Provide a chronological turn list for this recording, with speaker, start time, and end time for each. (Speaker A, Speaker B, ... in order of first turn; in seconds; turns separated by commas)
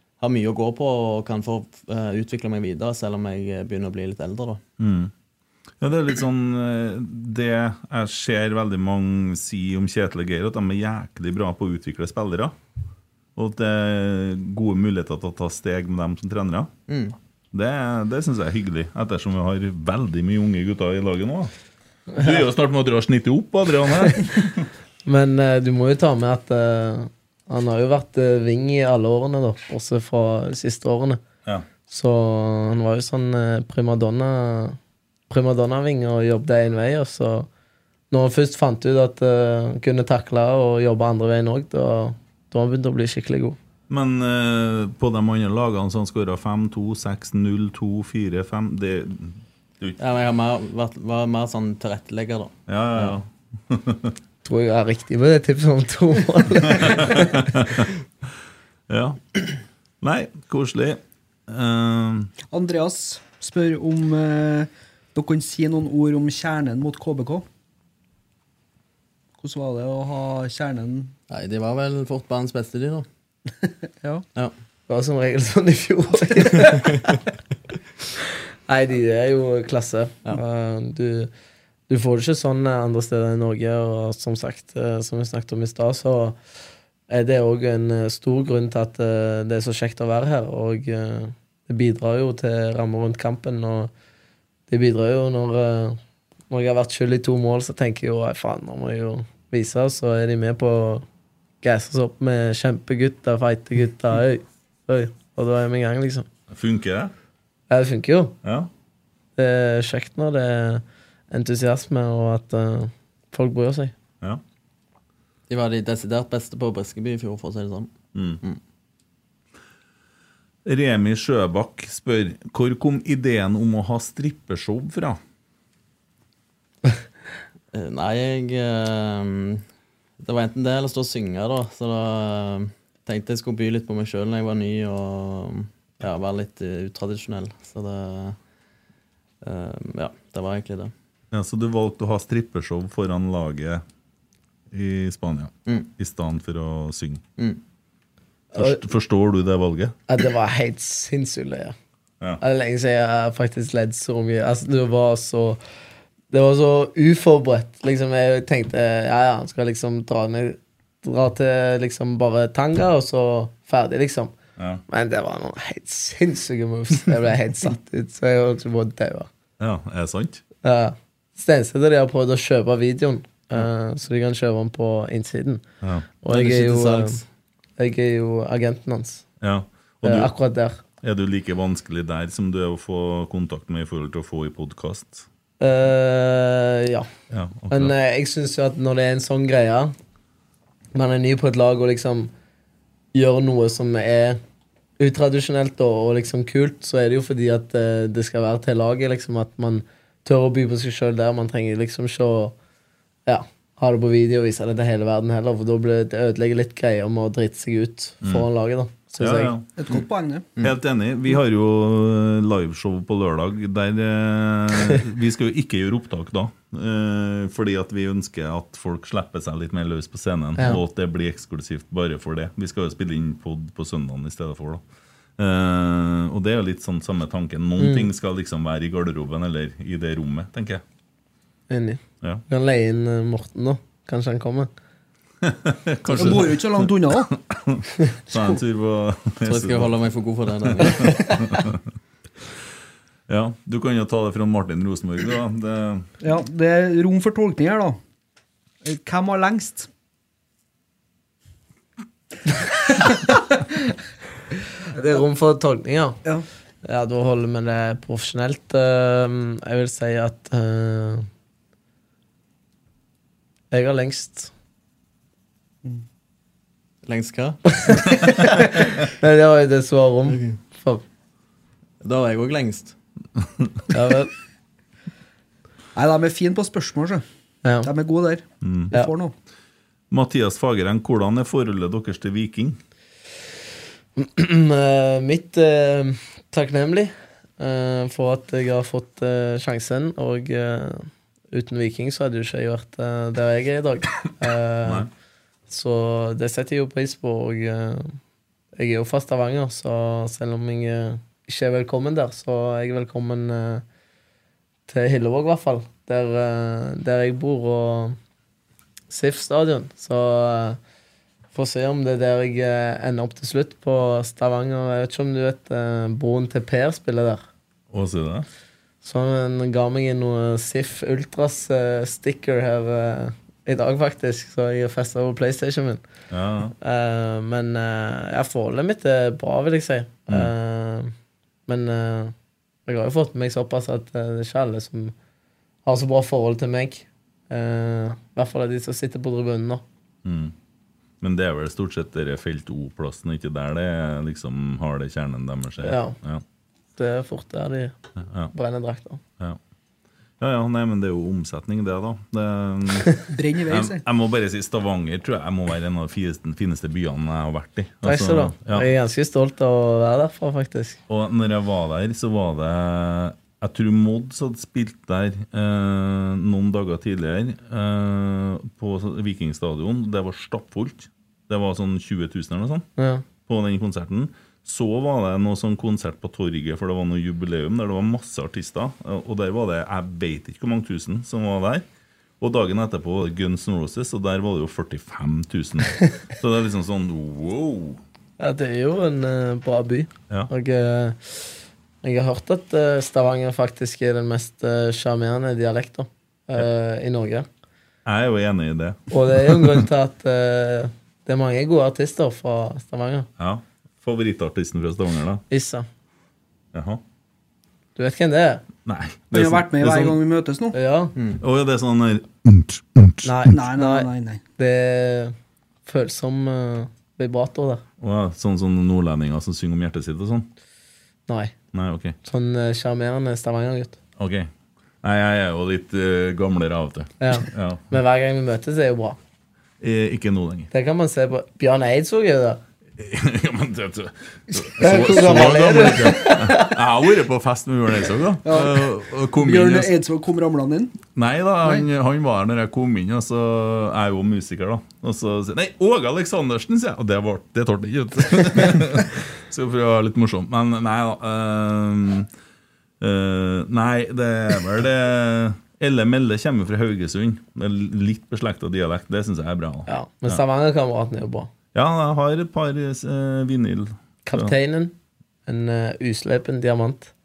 Speaker A: 0.2-4.6, Speaker B: 4.8-5.1, Speaker B: 5.8-12.5, Speaker B: 13.3-16.7, Speaker A: 16.9-17.1, Speaker B: 17.5-21.5, Speaker B: 22.1-24.7, Speaker C: 25.0-31.2, Speaker C: 31.9-34.8, Speaker C: 35.3-37.5, Speaker C: 38.1-43.6, Speaker B: 43.9-50.0, Speaker A: 50.0-53.1, Speaker B: 52.7-54.1, Speaker C: 54.4-57.5, Speaker B: 56.8-57.9, Speaker B: 58.9-59.4, Speaker B: 60.0-62.3, Speaker D: 62.5-67.5, Speaker D: 69.4-71.1, Speaker A: 71.3-73.0, Speaker C: 74.9-77.2, Speaker A: 76.6-76.9, Speaker C: 78.7-81.3, Speaker C: 81.9-86.4, Speaker C: 87.1-93.9, Speaker C: 94.7-96.0, Speaker C: 96.5-101.0, Speaker C: 101.6-106.3, Speaker B: 106.5-107.1, Speaker C: 107.7-108.3, Speaker B: 108.4-108.7, Speaker C: 109.4-113.9, Speaker A: 115.5-118.6, Speaker B: 118.1-118.4, Speaker B: 120.6-125.2, Speaker A: 127.7-129.6, Speaker A: 130.2-138.3, Speaker A: 139.4-140.9, Speaker B: 141.3-143.8, Speaker B: 144.7-147.2, Speaker C: 148.5-148.8, Speaker B: 148.5-149.9, Speaker C: 150.1-151.7, Speaker C: 152.4-155.6, Speaker C: 156.3-164.3, Speaker B: 164.6-164.8, Speaker C: 164.9-169.3, Speaker B: 169.6-170.4, Speaker C: 170.6-175.6, Speaker C: 176.2-177.2, Speaker A: 176.3-177.2, Speaker C: 177.8-179.2, Speaker B: 179.4-180.3, Speaker C: 180.0-180.8, Speaker B: 181.0-185.2, Speaker C: 185.6-187.1, Speaker B: 187.3-187.9, Speaker C: 187.7-189.9, Speaker C: 190.9-192.3, Speaker C: 193.1-194.4, Speaker C: 195.0-202.6, Speaker C: 203.2-209.5, Speaker B: 209.2-209.7, Speaker D: 209.8-210.4, Speaker B: 210.6-224.8, Speaker B: 225.4-230.8, Speaker C: 227.8-228.1, Speaker C: 231.7-234.7, Speaker B: 235.4-239.9, Speaker D: 236.1-237.3, Speaker A: 239.4-241.2, Speaker B: 240.6-241.8, Speaker B: 243.3-246.1, Speaker D: 246.2-248.0, Speaker D: 248.8-249.9, Speaker C: 254.9-256.2, Speaker C: 256.8-261.3, Speaker C: 263.7-264.5, Speaker A: 267.1-268.4, Speaker C: 267.7-271.0, Speaker A: 270.3-270.6, Speaker A: 272.0-272.9, Speaker C: 273.9-274.3, Speaker D: 275.9-277.2, Speaker C: 277.6-277.9, Speaker D: 277.8-279.3, Speaker B: 278.6-278.9, Speaker B: 280.1-282.8, Speaker C: 284.2-295.1, Speaker C: 295.7-298.2, Speaker C: 298.8-303.8, Speaker C: 304.9-308.1, Speaker C: 309.1-310.8, Speaker C: 311.5-317.4, Speaker B: 317.9-318.4, Speaker C: 319.0-326.0, Speaker B: 326.3-326.7, Speaker C: 326.8-331.1, Speaker C: 331.7-332.3, Speaker C: 332.9-335.1, Speaker C: 335.9-339.8, Speaker B: 340.2-340.5, Speaker B: 341.2-346.4, Speaker C: 345.8-346.2, Speaker C: 347.0-347.9, Speaker B: 348.2-348.5, Speaker C: 348.5-349.2, Speaker B: 350.4-358.9, Speaker D: 353.3-354.0, Speaker C: 358.0-361.0, Speaker B: 361.1-372.9, Speaker C: 373.0-373.2, Speaker B: 373.5-381.8, Speaker B: 382.4-388.0, Speaker C: 388.4-391.5, Speaker C: 392.0-397.5, Speaker B: 398.0-399.8, Speaker C: 399.1-403.3, Speaker B: 403.4-405.4, Speaker C: 405.5-405.9, Speaker B: 406.7-407.0, Speaker C: 407.9-408.6, Speaker B: 408.8-410.2, Speaker D: 409.3-410.8, Speaker C: 410.7-411.1, Speaker B: 411.4-413.5, Speaker C: 413.2-415.3, Speaker D: 413.5-414.4, Speaker C: 415.9-417.8, Speaker B: 418.0-420.5, Speaker C: 421.3-421.5, Speaker B: 421.7-422.1, Speaker C: 422.2-424.0, Speaker B: 424.2-424.5, Speaker B: 425.0-427.9, Speaker C: 427.2-429.2, Speaker B: 429.8-430.7, Speaker C: 430.7-432.6, Speaker B: 433.0-439.9, Speaker C: 434.8-436.8, Speaker D: 438.4-441.0, Speaker B: 441.1-452.3, Speaker B: 453.0-460.4, Speaker C: 459.9-461.5, Speaker B: 461.7-464.5, Speaker C: 464.2-464.9, Speaker C: 465.4-467.1